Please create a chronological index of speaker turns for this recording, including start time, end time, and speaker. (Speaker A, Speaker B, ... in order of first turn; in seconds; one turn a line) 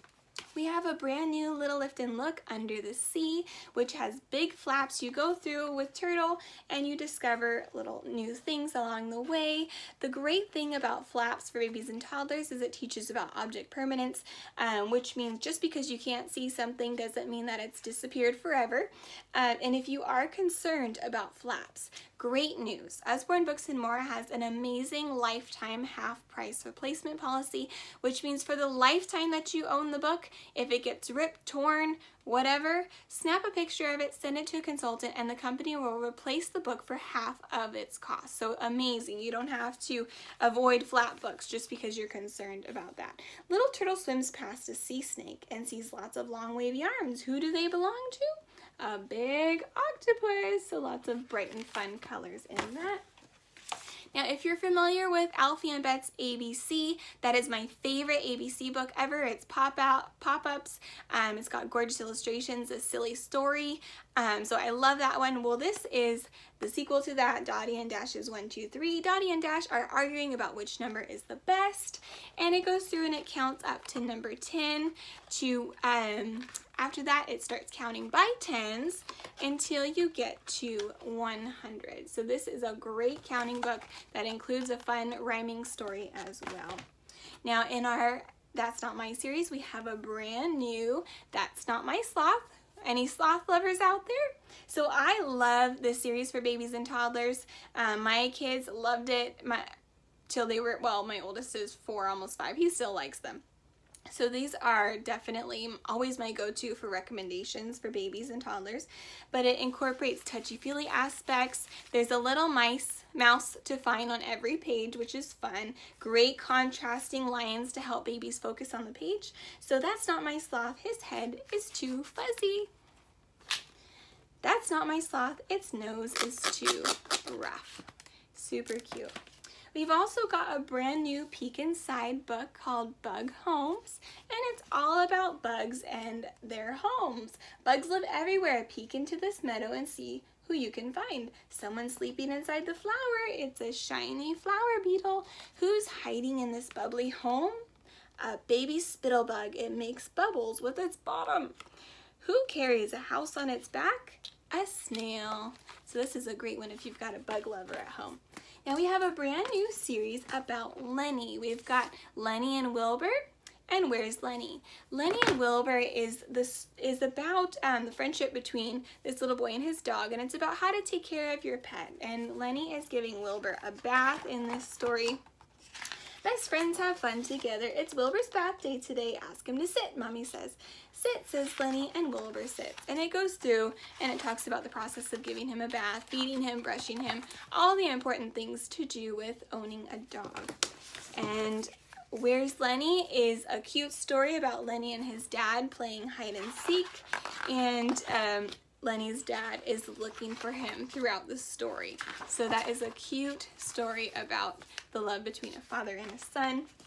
Speaker A: 0.5-53.0
Speaker A: 54.1-86.8
Speaker A: 87.4-99.7
Speaker A: 100.3-103.4
Speaker A: 104.1-122.7
Speaker A: 124.4-129.1
Speaker A: 129.7-147.6
Speaker A: 148.2-151.6
Speaker A: 152.2-175.2
Speaker A: 176.2-190.6
Speaker A: 191.1-206.7